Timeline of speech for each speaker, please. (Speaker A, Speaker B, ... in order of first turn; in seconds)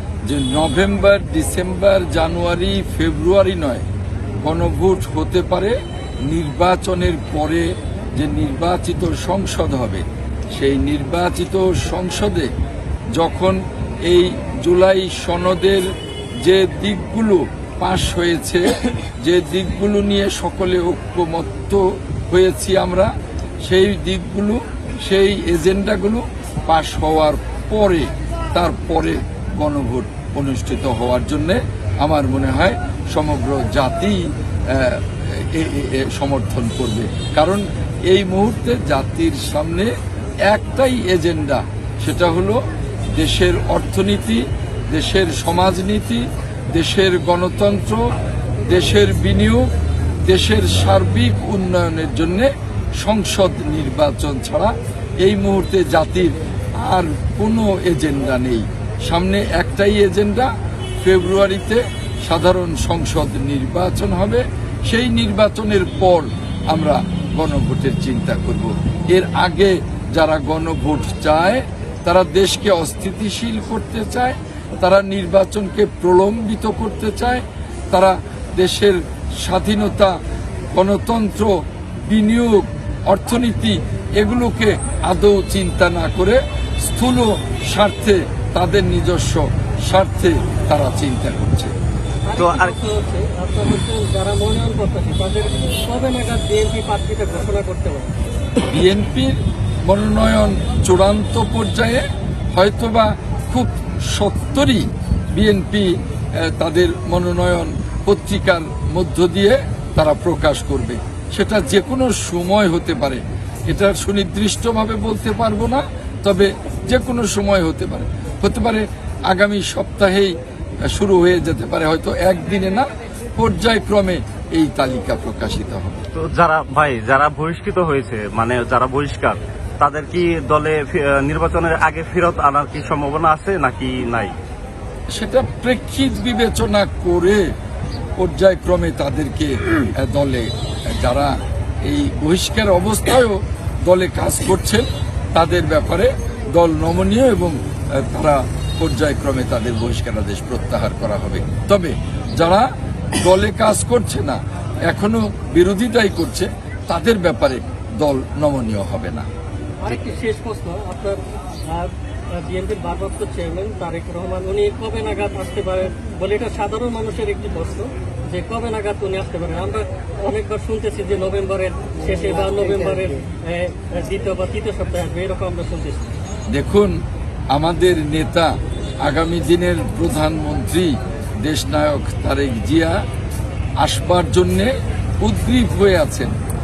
Speaker A: 0.3-3.8, 4.4-5.8, 6.3-10.0, 10.6-12.5, 13.2-15.9, 16.4-23.1, 23.6-39.9, 40.5-42.6, 43.1-48.0, 48.7-49.7, 50.3-60.5, 61.0-80.2, 80.7-81.5, 82.1-91.7, 98.7-120.3, 120.9-126.0, 135.1-137.4, 138.2-159.3, 176.5-176.9, 177.5-178.5, 179.0-183.0, 183.8-186.3
Speaker B: 92.3-98.2, 159.8-176.1
Speaker C: 92.4-92.8, 126.2-134.3